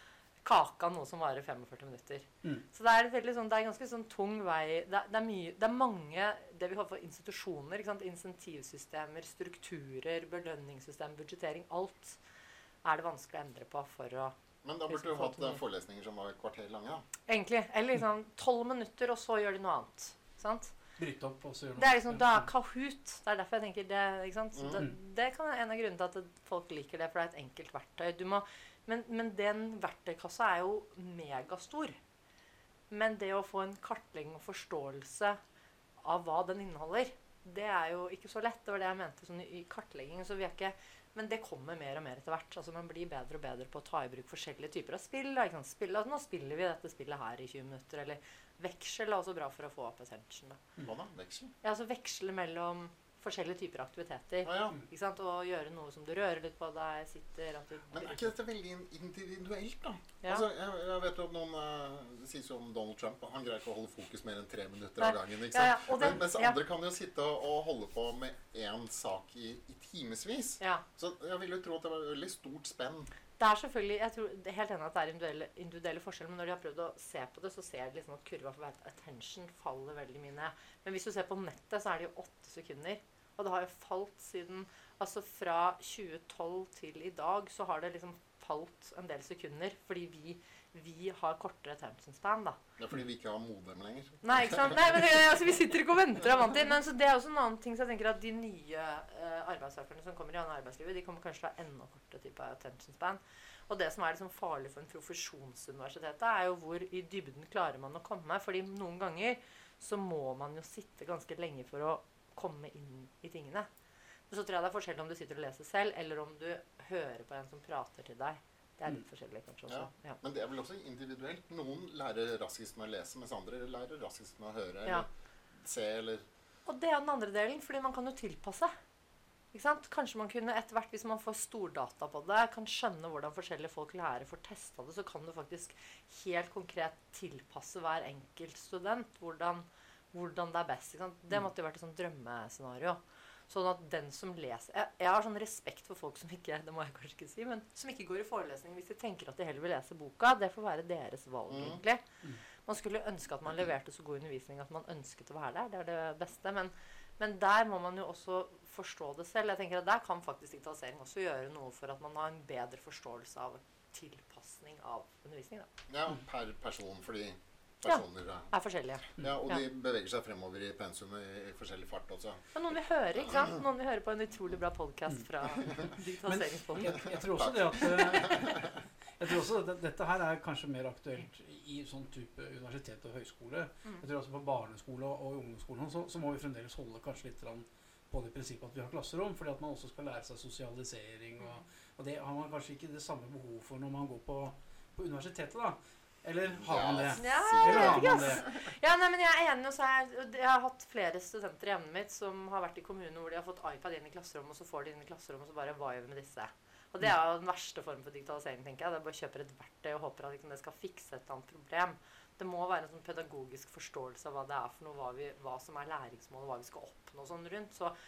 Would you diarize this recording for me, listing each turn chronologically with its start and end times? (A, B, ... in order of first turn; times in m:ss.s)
0:00.4-0:12.2 A
0:12.8-0:14.4 A
0:14.6-0:17.0 B
0:14.9-0:15.6 A
0:17.3-0:20.8 A
0:21.0-0:22.5 C
0:21.8-0:32.0 A
0:24.6-0:24.8 B
0:32.9-0:35.4 A
0:36.0-0:50.6 A
0:50.8-0:51.5 B
0:51.6-0:58.3 A
0:54.4-0:54.8 B
0:57.9-1:13.1 B
1:05.0-1:06.6 A
1:13.4-1:32.6 A
1:32.8-1:34.8 B
1:34.2-1:53.7 A
1:54.3-2:00.2 A
1:59.7-2:06.2 B
2:06.6-2:08.8 A
2:09.5-2:32.0 A
2:31.5-2:31.8 B
2:32.6-2:45.7 A
2:45.9-2:48.5 B
2:47.9-2:49.6 A
2:49.1-2:52.4 B
2:52.5-2:57.2 A
2:55.1-3:18.4 C
2:57.3-2:58.7 B
3:16.5-3:18.5 B
3:17.2-3:37.9 A